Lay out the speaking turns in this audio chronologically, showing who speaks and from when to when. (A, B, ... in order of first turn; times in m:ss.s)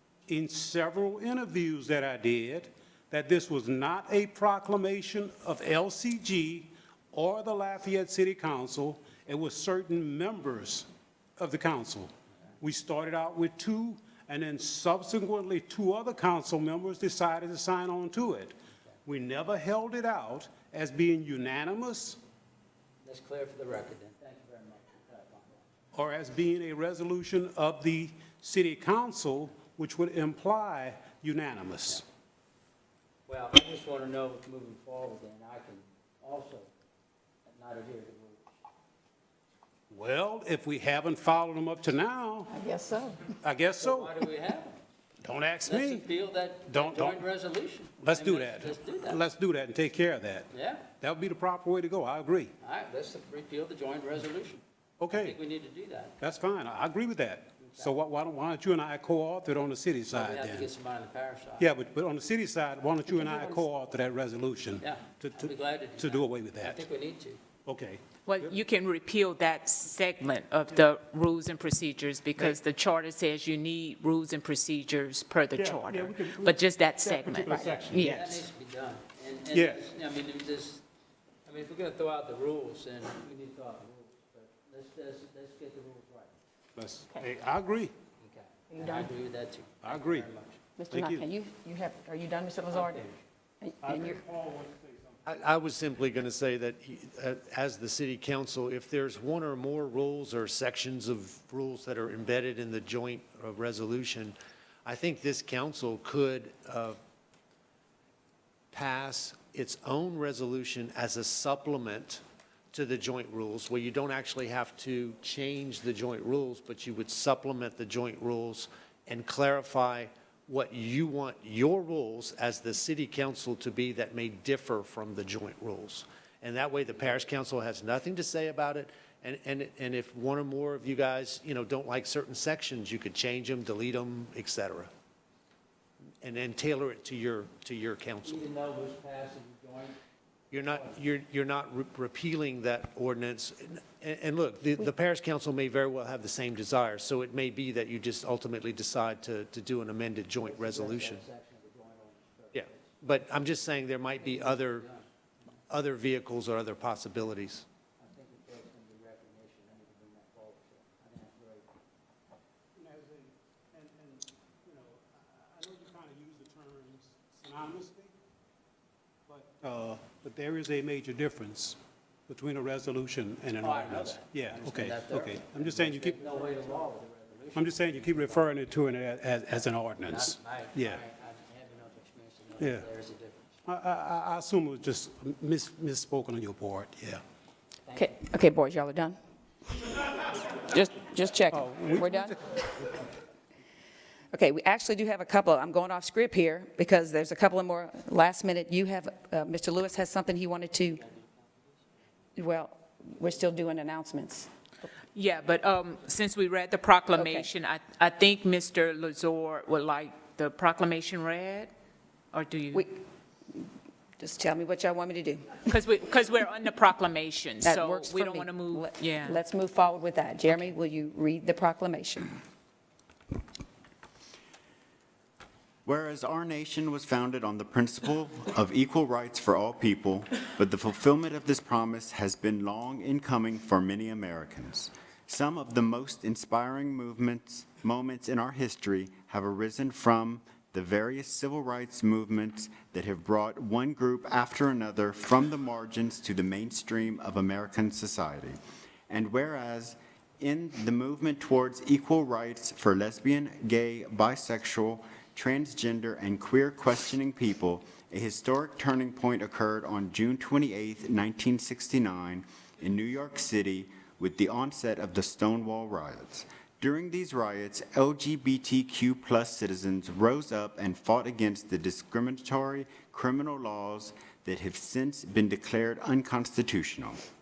0:00.3-0:10.9 A
0:11.4-0:22.2 A
0:23.0-0:25.7 B
0:25.9-0:32.0 A
0:33.3-0:36.7 B
0:37.4-0:38.5 B
0:39.9-0:42.6 A
0:42.5-0:43.2 C
0:43.4-0:44.1 A
0:43.8-0:44.8 B
0:45.2-0:46.1 A
0:45.6-0:49.2 B
0:46.7-0:47.2 A
0:48.0-0:50.5 A
0:50.5-0:50.8 B
0:51.0-0:52.5 A
0:52.6-0:56.2 B
0:55.0-0:55.4 A
0:56.2-1:00.7 A
0:57.6-0:57.9 B
1:00.1-1:01.8 B
1:01.6-1:06.8 A
1:04.8-1:07.4 B
1:07.7-1:08.6 A
1:08.3-1:18.4 D
1:15.6-1:18.1 A
1:17.7-1:20.8 B
1:19.5-1:19.8 A
1:21.5-1:26.3 B
1:26.8-1:27.9 A
1:28.2-1:30.6 B
1:28.7-1:29.1 C
1:29.8-1:30.3 A
1:30.8-1:33.0 C
1:30.9-1:31.3 A
1:32.7-1:33.2 B
1:33.6-1:34.2 C
1:33.8-1:35.2 A
1:35.3-1:47.0 E
1:48.7-1:52.2 E
1:52.7-2:14.9 E
2:16.2-2:18.5 E
2:18.2-2:20.0 B
2:20.5-2:31.2 E
2:20.5-2:21.0 B
2:30.4-2:33.0 B
2:32.5-2:34.9 E
2:34.1-2:35.5 B
2:35.7-2:37.6 E
2:38.0-2:41.7 B
2:42.8-2:48.1 A
2:49.3-2:56.2 A
2:53.6-2:58.5 B
2:57.6-3:01.0 A
3:00.0-3:03.6 B
3:02.6-3:02.9 A
3:03.7-3:07.2 A
3:07.8-3:08.2 B
3:08.0-3:09.2 C
3:10.6-3:12.6 C
3:11.5-3:13.0 A
3:14.3-3:21.0 C
3:20.9-3:21.8 B
3:22.4-3:24.5 C
3:25.1-3:31.7 D
3:27.1-3:27.5 C
3:32.3-3:32.9 D
3:32.7-3:33.0 C
3:34.2-3:35.7 C
3:35.6-3:39.4 D
3:37.6-3:42.4 C
3:45.8-4:08.6 F
4:09.1-4:37.2 F